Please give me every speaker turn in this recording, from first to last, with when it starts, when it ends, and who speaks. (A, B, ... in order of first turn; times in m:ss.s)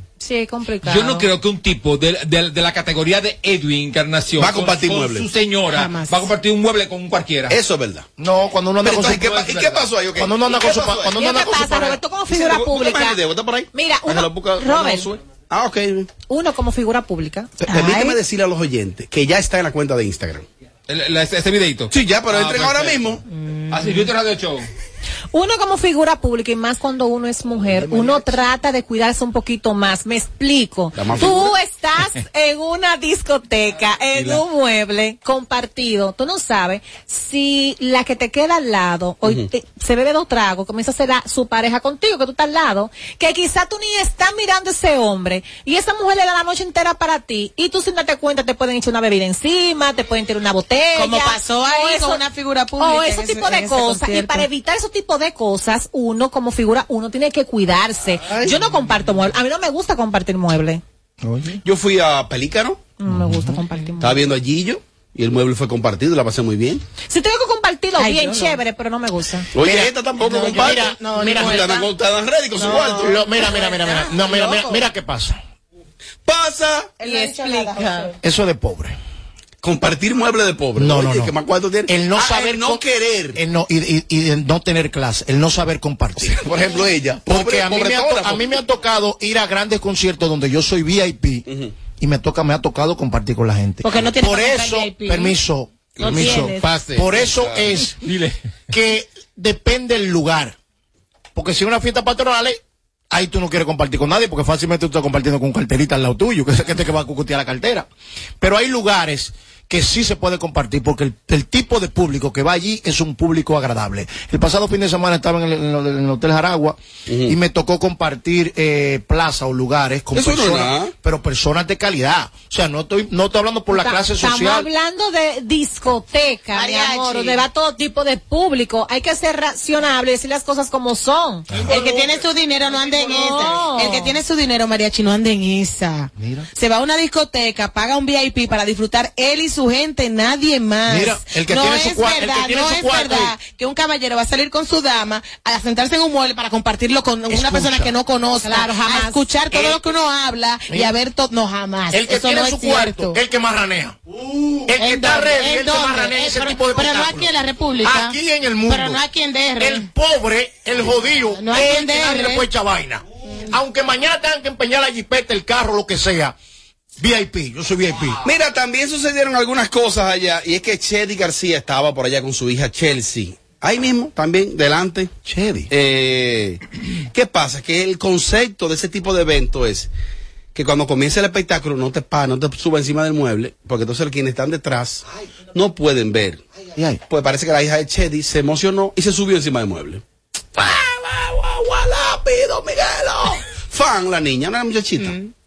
0:00.2-0:01.3 A
0:00.8-0:07.5 B
0:04.4-0:05.3 C
0:05.7-0:06.3 D
0:07.5-0:08.1 C
0:08.2-0:09.4 E
0:08.8-0:16.1 C
0:09.1-0:09.9 B
0:10.2-0:12.0 E
0:11.0-0:13.2 A
0:13.7-0:15.1 A
0:16.3-0:18.2 A
0:17.6-0:20.5 C
0:20.9-0:23.2 B
0:21.9-0:23.2 C
0:23.7-0:24.6 B
0:25.3-0:52.2 A
0:31.0-0:31.5 C
0:34.1-0:34.4 B
0:39.2-0:39.5 C
0:50.9-0:54.5 D
0:52.8-1:00.8 A
1:01.2-1:01.6 E
1:01.6-1:02.8 C
1:03.0-1:04.2 A
1:04.0-1:06.8 C
1:07.1-1:09.5 A
1:08.0-1:08.6 D
1:09.5-1:13.2 C
1:09.6-1:09.9 E
1:10.2-1:11.9 D
1:10.5-1:11.8 E
1:12.6-1:14.8 D
1:12.8-1:15.4 E
1:16.2-1:16.9 C
1:17.0-1:18.1 D
1:17.0-1:18.0 A
1:18.2-1:19.0 E
1:19.6-1:23.4 C
1:20.8-1:21.3 E
1:21.9-1:22.8 E
1:23.4-1:26.4 E
1:26.2-1:28.5 C
1:27.3-1:31.4 E
1:31.5-1:31.7 C
1:32.0-1:38.0 E
1:33.8-1:35.4 D
1:36.0-1:36.7 D
1:36.6-1:37.3 B
1:38.0-1:38.4 B
1:38.7-1:40.6 E
1:41.4-1:42.6 E
1:43.1-1:47.9 E
1:48.4-2:04.7 E
1:57.1-1:57.4 C
2:00.1-2:00.9 C
2:03.7-2:11.6 A
2:06.5-2:07.5 D
2:11.7-2:33.2 D
2:13.0-2:14.2 A
2:16.2-2:16.5 E
2:20.9-2:23.4 E
2:27.4-2:27.9 E
2:28.4-2:29.4 A
2:30.7-2:31.0 E
2:31.9-2:34.0 E
2:34.7-2:37.3 E
2:34.7-2:38.2 D
2:37.8-2:39.0 E
2:38.7-2:39.9 D
2:39.6-2:46.4 E
2:41.3-2:42.5 D
2:47.0-2:48.2 E
2:48.2-2:55.1 C
2:55.3-2:55.7 E
2:55.7-2:59.9 C
3:00.6-3:05.0 C
3:05.5-3:06.4 C
3:07.1-3:10.0 C
3:10.6-3:15.2 C